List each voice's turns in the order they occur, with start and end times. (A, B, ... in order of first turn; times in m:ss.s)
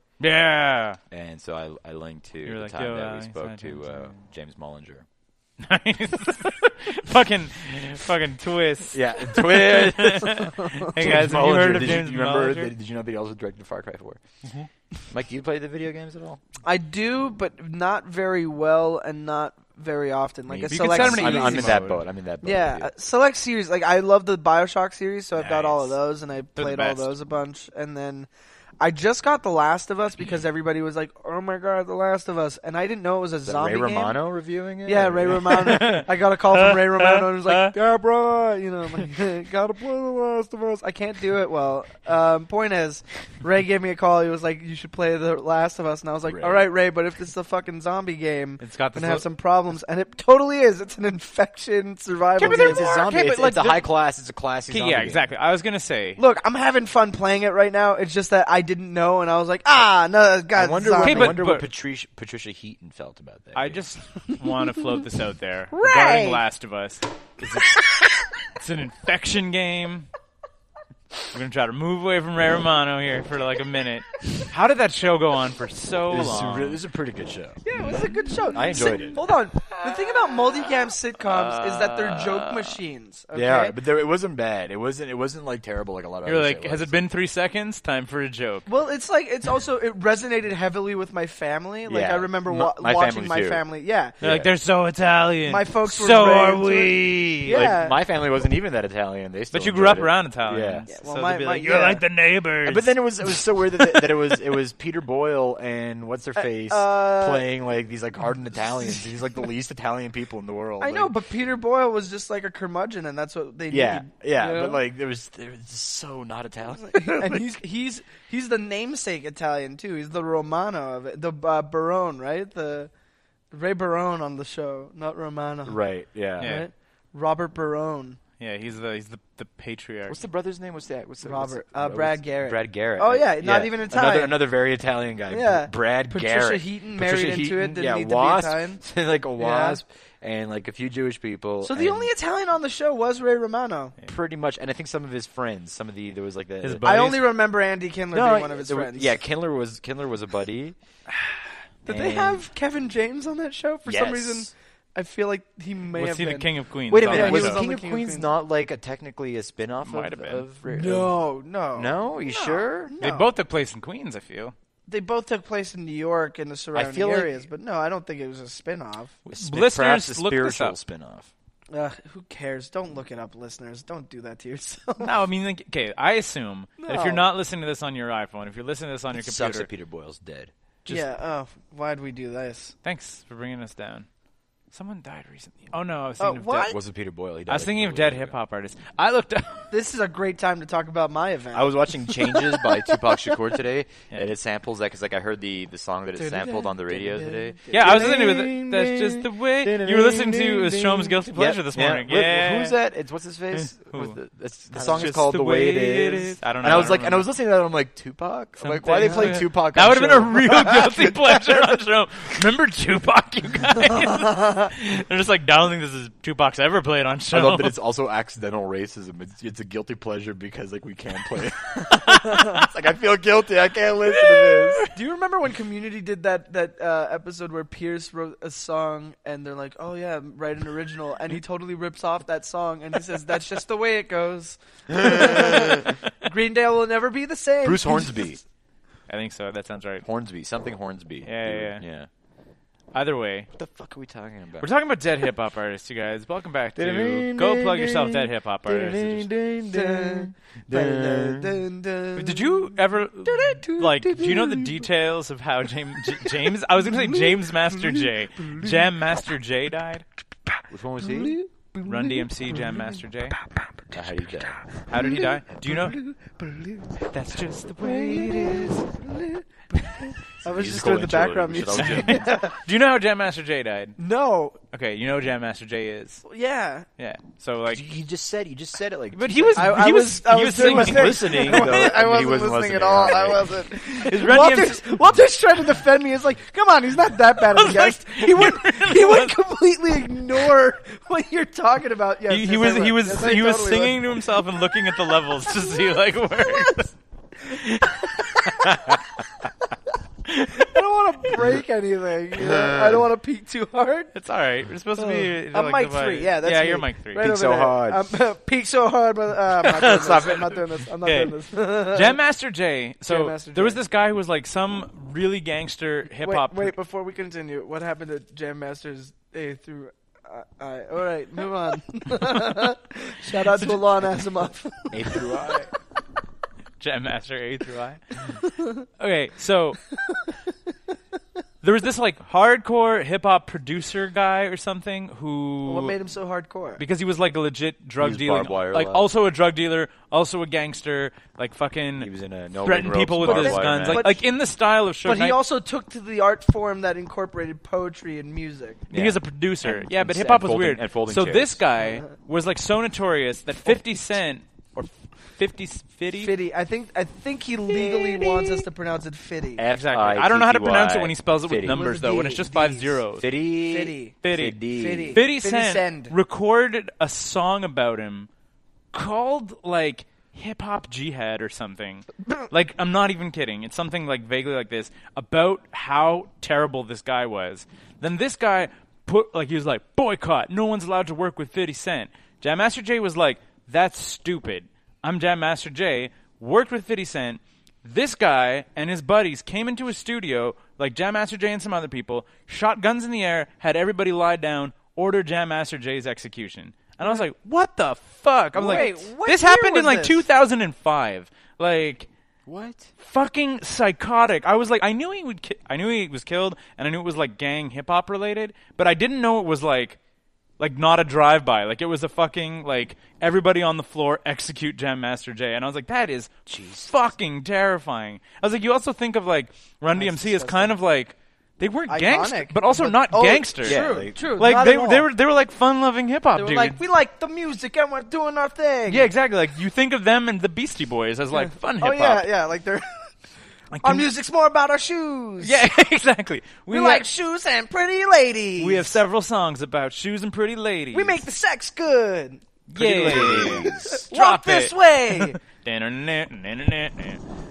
0:00.2-0:01.0 A
0:01.1-0:05.1 B
0:02.5-0:04.2 A
0:05.6-0:12.7 A
0:08.9-0:14.5 B
0:10.4-0:11.1 C
0:15.1-0:16.4 B
0:16.6-0:21.8 C
0:20.5-0:22.9 B
0:20.7-0:22.0 A
0:22.4-0:28.3 C
0:25.4-0:25.9 B
0:26.6-0:27.1 A
0:28.8-0:34.2 C
0:33.4-0:35.6 B
0:34.8-0:52.9 C
0:35.4-0:37.7 A
0:46.3-0:46.7 B
0:48.6-0:49.3 A
0:52.4-0:53.8 A
0:52.4-0:55.3 B
0:54.7-0:56.2 A
0:56.2-1:01.4 C
1:00.6-1:03.8 B
1:01.0-1:01.7 A
1:03.6-1:07.9 A
1:05.7-1:06.4 C
1:08.4-1:10.1 A
1:11.3-1:16.8 A
1:16.1-1:17.6 B
1:17.6-1:23.8 C
1:18.5-1:19.2 B
1:18.7-1:22.7 A
1:23.3-1:27.0 B
1:26.2-1:28.7 A
1:28.7-1:34.2 C
1:31.9-1:33.6 B
1:34.2-1:34.5 B
1:34.2-1:37.6 A
1:35.5-1:38.0 C
1:37.2-1:40.9 B
1:39.5-1:43.0 A
1:40.9-1:42.0 C
1:42.6-1:51.1 B
1:46.4-1:47.5 C
1:50.8-1:54.8 C
1:53.7-1:57.5 B
1:56.8-2:02.9 C
2:03.5-2:05.8 C
2:05.7-2:06.6 B
2:06.3-2:08.2 C
2:06.4-2:06.7 A
2:08.4-2:10.2 A
2:10.1-2:22.1 B
2:11.2-2:14.4 C
2:15.3-2:18.8 C
2:19.4-2:19.8 C
2:21.6-2:24.0 C
2:24.0-2:27.1 B
2:26.6-2:27.2 A
2:26.8-2:29.2 C
2:28.1-2:30.8 B
2:31.8-2:36.5 C
2:31.9-2:32.4 B
2:33.9-2:34.5 B
2:36.0-2:37.6 A
2:36.9-2:41.2 B
2:37.1-2:38.4 C
2:39.8-2:40.4 A
2:40.7-2:43.3 C
2:41.8-2:42.9 B
2:43.0-2:44.5 A
2:44.9-2:49.2 C
2:46.7-2:47.4 B
2:49.3-2:51.3 B
2:49.3-2:50.8 A
2:51.7-2:55.1 C
2:55.0-2:59.7 A
2:56.8-2:57.2 C
2:59.1-3:00.5 B
3:00.9-3:02.7 C
3:02.8-3:04.1 A
3:04.7-3:06.7 A
3:06.2-3:06.8 C
3:06.7-3:08.4 B
3:07.5-3:09.7 A
3:09.7-3:13.0 C
3:11.5-3:31.7 B
3:16.2-3:18.2 C
3:17.7-3:22.8 A
3:23.5-3:24.2 A
3:24.8-3:25.1 C
3:25.0-3:27.3 A
3:28.6-3:37.8 A
3:29.0-3:29.4 C
3:34.2-3:34.7 C
3:37.3-3:44.9 B
3:42.1-3:42.5 C
3:44.2-3:44.9 A
3:44.9-3:58.4 C
3:55.0-3:55.9 B
3:57.6-3:58.4 B
3:59.1-4:00.1 A
4:00.0-4:02.1 B
4:01.2-4:01.8 A
4:02.9-4:03.5 A
4:03.6-4:04.7 B
4:04.6-4:09.3 A
4:06.8-4:11.6 B
4:09.7-4:12.7 C
4:12.2-4:20.0 A
4:13.2-4:14.6 C
4:17.0-4:18.7 C
4:20.7-4:21.4 B
4:21.0-4:24.0 C
4:21.8-4:23.4 A
4:23.9-4:24.6 B
4:24.6-4:27.1 C
4:24.9-4:26.0 A
4:27.1-4:28.8 A
4:27.8-4:32.6 C
4:30.4-4:32.4 B
4:31.8-4:34.0 A
4:34.0-4:34.6 C
4:34.7-4:36.2 A
4:36.3-4:36.9 C
4:37.0-4:37.8 A
4:37.7-4:43.6 B
4:39.2-4:41.9 A
4:39.6-4:54.0 C
4:43.9-4:44.8 A
4:47.5-4:49.4 A
4:52.3-4:56.9 A
4:56.5-4:56.8 C
4:57.9-4:58.8 C
4:58.5-4:59.0 A
5:00.5-5:04.1 C
5:02.4-5:03.0 B
5:04.1-5:07.3 A
5:05.0-5:12.2 C
5:07.2-5:08.1 B
5:09.6-5:10.6 B
5:11.0-5:16.8 A
5:13.1-5:13.8 C
5:16.2-5:25.3 C
5:23.5-5:23.8 A
5:24.9-5:25.7 B
5:26.8-5:28.2 A
5:29.0-5:29.8 A
5:31.6-5:36.0 A
5:35.6-5:36.8 C
5:36.8-5:42.1 A
5:38.0-5:39.1 B
5:42.0-5:44.1 B
5:42.6-5:45.4 A
5:43.2-5:44.2 C
5:45.0-5:48.8 C
5:48.9-5:51.6 B
5:48.9-5:56.3 A
5:56.1-5:59.6 C
5:59.6-6:01.9 B
5:59.7-6:03.3 A
6:01.7-6:03.0 C
6:03.2-6:05.2 B
6:03.6-6:04.2 C
6:04.2-6:04.6 A
6:04.7-6:06.2 C
6:05.1-6:08.3 A
6:08.9-6:42.1 A
6:38.6-6:40.2 C
6:42.5-6:42.9 B
6:43.0-6:50.0 A
6:50.6-6:56.3 A
6:56.5-6:56.9 B
6:56.8-7:06.8 A
6:59.9-7:00.8 C
7:01.9-7:05.1 C
7:03.6-7:04.4 B
7:06.4-7:09.1 C
7:08.9-7:12.3 A
7:11.3-7:13.1 C
7:13.7-7:14.1 A
7:13.8-7:15.6 C
7:15.4-7:17.1 A
7:16.7-7:19.0 C
7:18.6-7:21.2 A
7:20.9-7:22.4 C
7:22.7-7:27.2 A
7:22.8-7:24.1 B
7:23.1-7:25.4 C